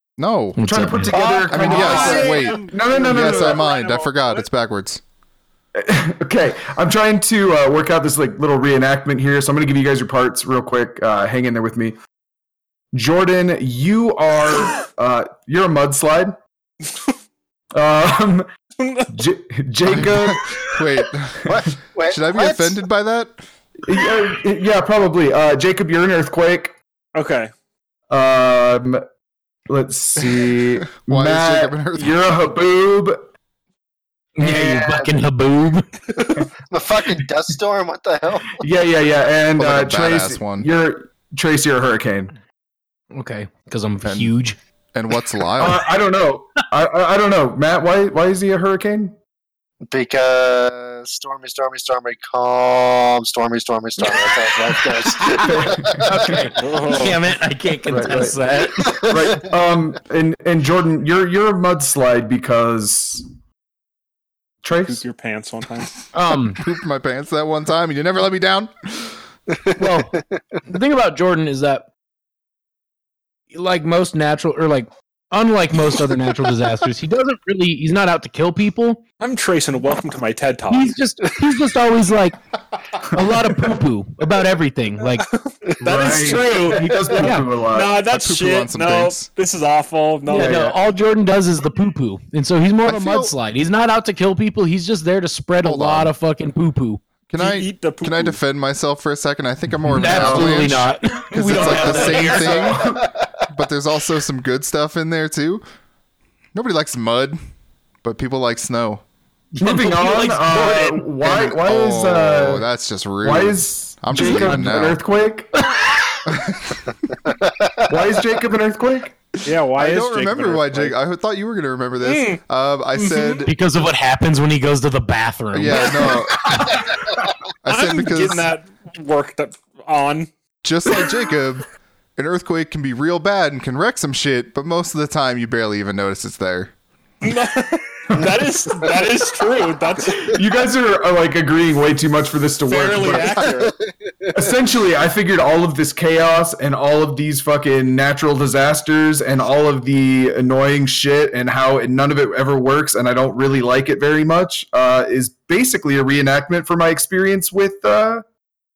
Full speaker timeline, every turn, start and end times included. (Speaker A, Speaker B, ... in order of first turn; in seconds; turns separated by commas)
Speaker A: 0.2-0.9, Speaker B: 0.6-1.8, Speaker C: 0.6-3.6, Speaker D: 1.1-4.5, Speaker A: 1.5-5.0, Speaker C: 5.7-12.0, Speaker C: 12.9-16.4, Speaker C: 17.7-18.5, Speaker D: 18.8-19.1, Speaker C: 19.1-20.8, Speaker A: 19.9-21.5, Speaker C: 21.4-21.7, Speaker E: 21.4-22.8, Speaker A: 22.1-23.4, Speaker C: 23.8-26.7, Speaker D: 27.1-27.5, Speaker C: 28.1-29.0, Speaker C: 29.7-33.3, Speaker A: 30.9-32.2, Speaker B: 34.4-35.9, Speaker E: 34.4-35.1, Speaker E: 36.7-38.6, Speaker C: 38.6-42.3, Speaker A: 39.6-40.7, Speaker B: 43.1-44.6, Speaker A: 44.0-44.3, Speaker A: 44.9-45.8, Speaker C: 45.6-49.2, Speaker E: 49.9-57.1, Speaker B: 54.0-59.3, Speaker C: 55.3-56.5, Speaker D: 56.6-57.2, Speaker C: 57.9-58.4, Speaker E: 58.8-59.4, Speaker C: 59.0-63.2, Speaker C: 64.6-65.0, Speaker D: 64.8-65.9, Speaker B: 66.1-66.6, Speaker A: 66.6-69.2, Speaker E: 69.5-70.0, Speaker B: 69.8-71.9, Speaker B: 73.5-79.0, Speaker D: 79.2-80.9, Speaker B: 80.7-82.4, Speaker C: 83.0-83.3, Speaker B: 83.1-85.3, Speaker D: 85.3-90.6, Speaker C: 85.8-88.0, Speaker B: 87.1-87.5, Speaker A: 88.0-89.3, Speaker B: 90.3-97.0, Speaker C: 90.3-90.8, Speaker A: 92.8-93.3, Speaker A: 95.6-96.1, Speaker A: 97.3-102.9, Speaker D: 97.4-98.4, Speaker C: 99.9-100.7, Speaker B: 99.9-102.8, Speaker C: 101.5-103.1, Speaker D: 101.6-102.5, Speaker E: 103.0-103.2, Speaker A: 103.5-105.6, Speaker A: 106.5-107.4, Speaker A: 108.0-109.0, Speaker B: 109.5-111.1, Speaker C: 109.6-112.7, Speaker A: 111.2-115.0, Speaker C: 113.2-115.7, Speaker B: 114.2-114.7, Speaker A: 116.2-116.9, Speaker E: 117.3-117.8, Speaker C: 117.9-119.2, Speaker D: 119.4-121.0, Speaker A: 119.8-123.5, Speaker D: 122.0-122.4, Speaker D: 123.0-123.5, Speaker B: 123.5-126.5, Speaker A: 125.5-126.6, Speaker A: 127.6-128.5, Speaker D: 127.7-130.3, Speaker A: 130.6-136.7, Speaker D: 137.2-140.4, Speaker C: 140.2-143.4, Speaker D: 142.7-143.7, Speaker E: 143.1-144.1, Speaker C: 144.3-158.2